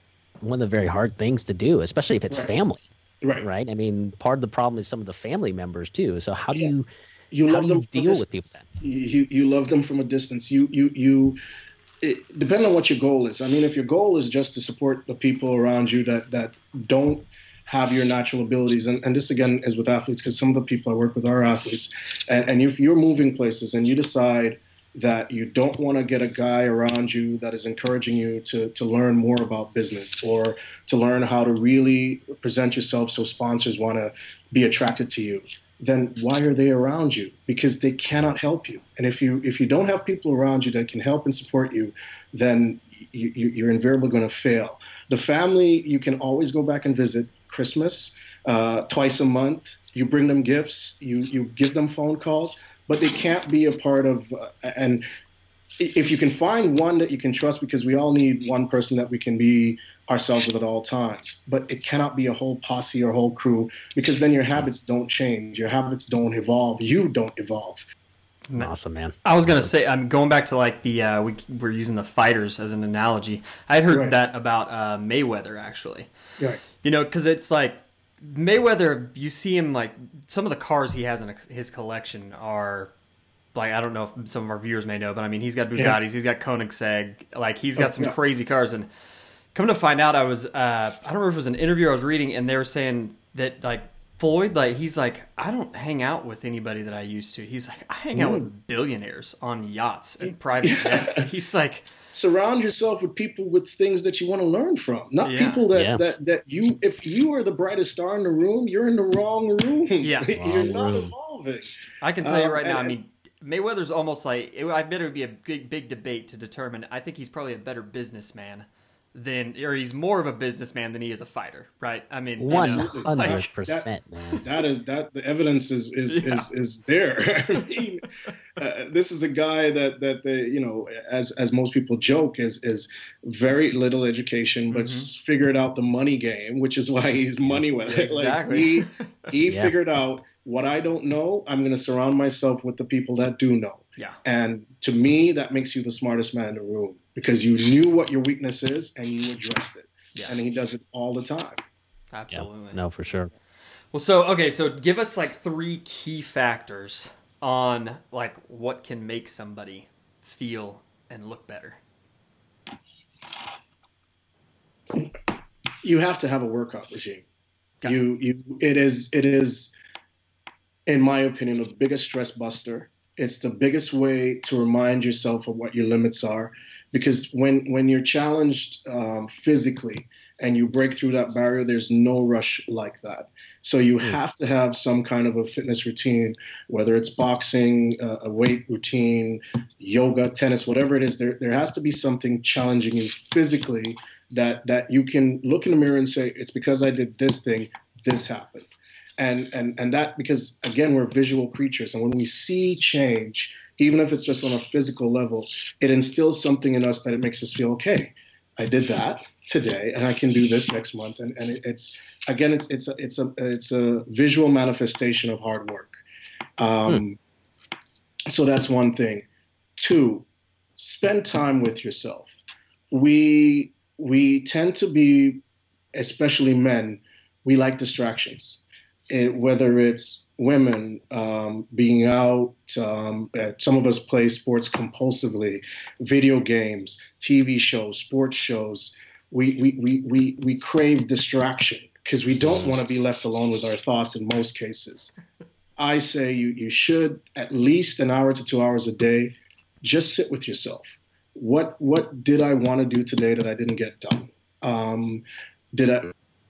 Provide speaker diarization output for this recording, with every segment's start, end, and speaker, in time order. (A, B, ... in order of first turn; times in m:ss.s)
0:00.4-0:02.9 A
0:02.3-0:02.5 B
0:03.4-0:06.9 A
0:07.3-0:11.4 B
0:07.5-0:08.6 A
0:12.0-0:55.0 B
0:55.8-1:07.8 B
1:08.6-1:09.7 A
1:09.2-1:16.1 C
1:13.9-1:14.1 B
1:16.8-1:22.9 C
1:23.5-1:28.9 C
1:27.8-1:28.2 B
1:29.5-1:41.9 C
1:38.1-1:38.5 B
1:40.3-1:41.2 B
1:42.1-1:53.0 B
1:45.2-1:45.6 C
1:45.7-1:46.0 A
1:50.0-1:50.4 C
1:50.3-1:51.1 A
1:52.0-2:03.5 C
2:02.4-2:04.4 A
2:02.5-2:03.9 B
2:04.4-2:08.0 B
2:06.1-2:06.5 C
2:08.6-2:31.6 B
2:14.7-2:15.1 C
2:17.9-2:19.0 C
2:19.5-2:19.7 A
2:32.1-2:32.8 C
2:32.3-2:33.3 A
2:33.9-2:41.8 C
2:45.8-2:47.2 B
2:47.8-2:49.7 B
2:50.9-3:36.0 B
3:36.6-3:37.2 B
3:38.3-3:39.2 B
3:39.8-3:42.3 B
3:42.9-3:45.4 B
3:45.9-4:05.1 B
4:05.8-4:16.1 B